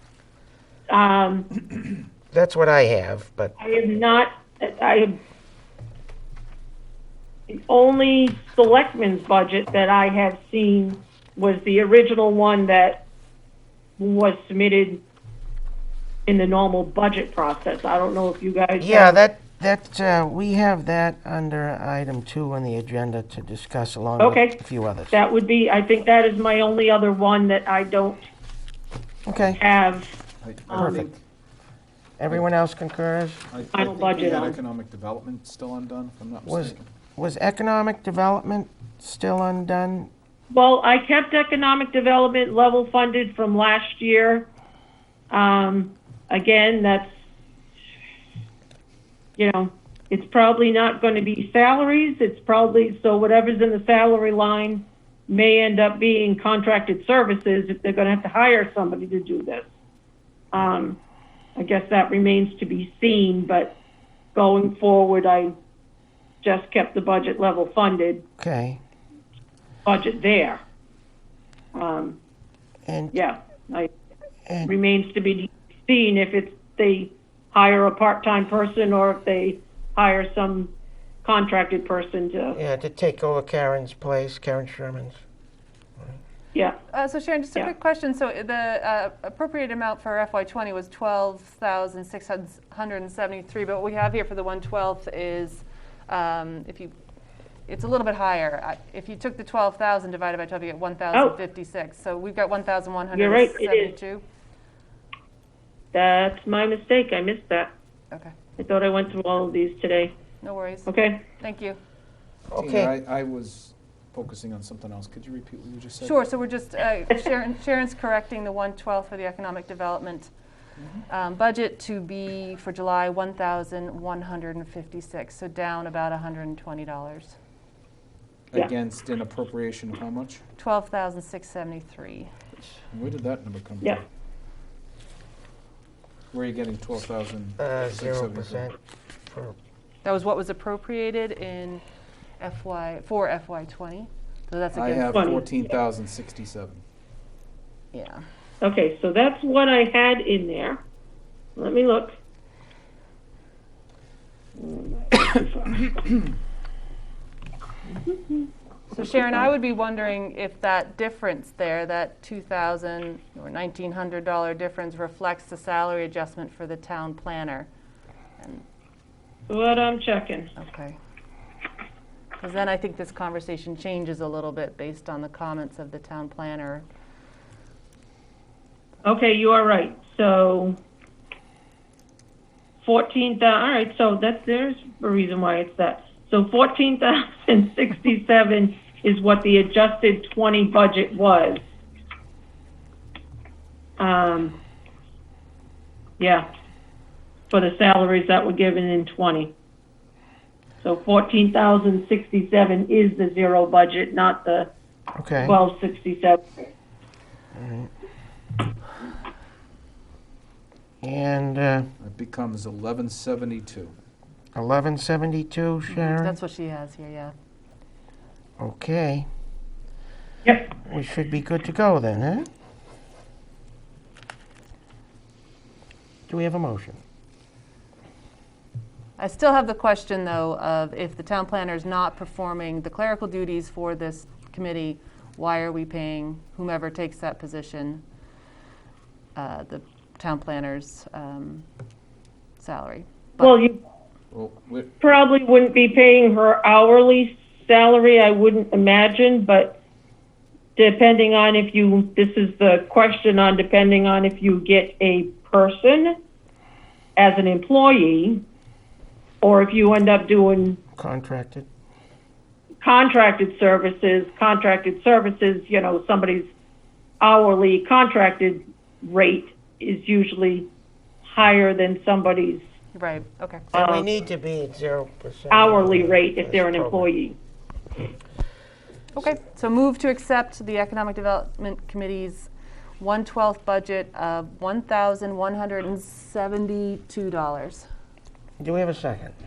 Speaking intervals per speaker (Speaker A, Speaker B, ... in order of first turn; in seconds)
Speaker A: 0.9-1.5, 3.6-5.2, 7.5-13.0, 14.0-15.0, 16.2-19.2, 24.2-28.3, 29.6-30.1, 30.7-31.1, 33.7-34.6, 40.5-44.5, 45.3-47.1, 49.4-59.7, 60.5-61.0, 61.5-63.8, 64.3-65.5, 66.4-68.2, 69.8-70.6, 71.7-72.2, 73.1-73.9, 74.6-80.7, 81.2-82.6, 86.5-86.8, 103.1-103.9, 105.9-107.7, 108.6-110.1, 110.8-111.2, 145.1-145.4, 148.6-150.8, 151.6-152.2, 154.6-155.8, 169.5-170.5, 179.0-180.8, 182.8-191.6, 194.0-194.6, 196.2-196.5, 197.5-199.5, 200.8-204.7, 205.4-206.4, 243.4-243.8, 245.0-249.8, 250.8-256.2, 257.1-258.4, 259.4-260.8, 262.8-266.5, 267.2-270.7, 271.2-272.6, 273.7-274.0, 275.5-277.3
Speaker B: 2.3-3.5, 18.8-25.1, 29.3-29.6, 30.7-31.1, 32.2-33.5, 36.5-40.1, 68.4-68.8, 72.9-73.2, 74.5-74.7, 82.5-85.2, 112.5-112.9, 137.6-139.6, 205.2-205.6, 207.5-207.9, 211.0-211.9, 214.5-216.3, 218.6-219.3, 220.8-222.5, 226.3-227.0, 260.9-261.7, 273.7-277.1, 288.6-289.3
Speaker C: 30.4-31.2, 33.5-36.9, 112.5-116.2, 128.5-130.4, 132.5-134.0, 136.3-138.7, 144.7-146.8, 212.0-213.9, 244.3-244.9
Speaker D: 86.9-96.9, 97.7-104.2, 110.4-111.8, 116.0-120.3, 121.1-127.3, 130.6-132.3, 140.0-141.8, 142.4-145.5, 147.9-148.2, 158.9-167.7, 168.4-168.6, 170.6-171.0, 172.4-176.8, 215.9-217.3, 229.2-238.0, 239.3-241.7, 242.6-243.6, 272.9-273.6, 279.1-287.9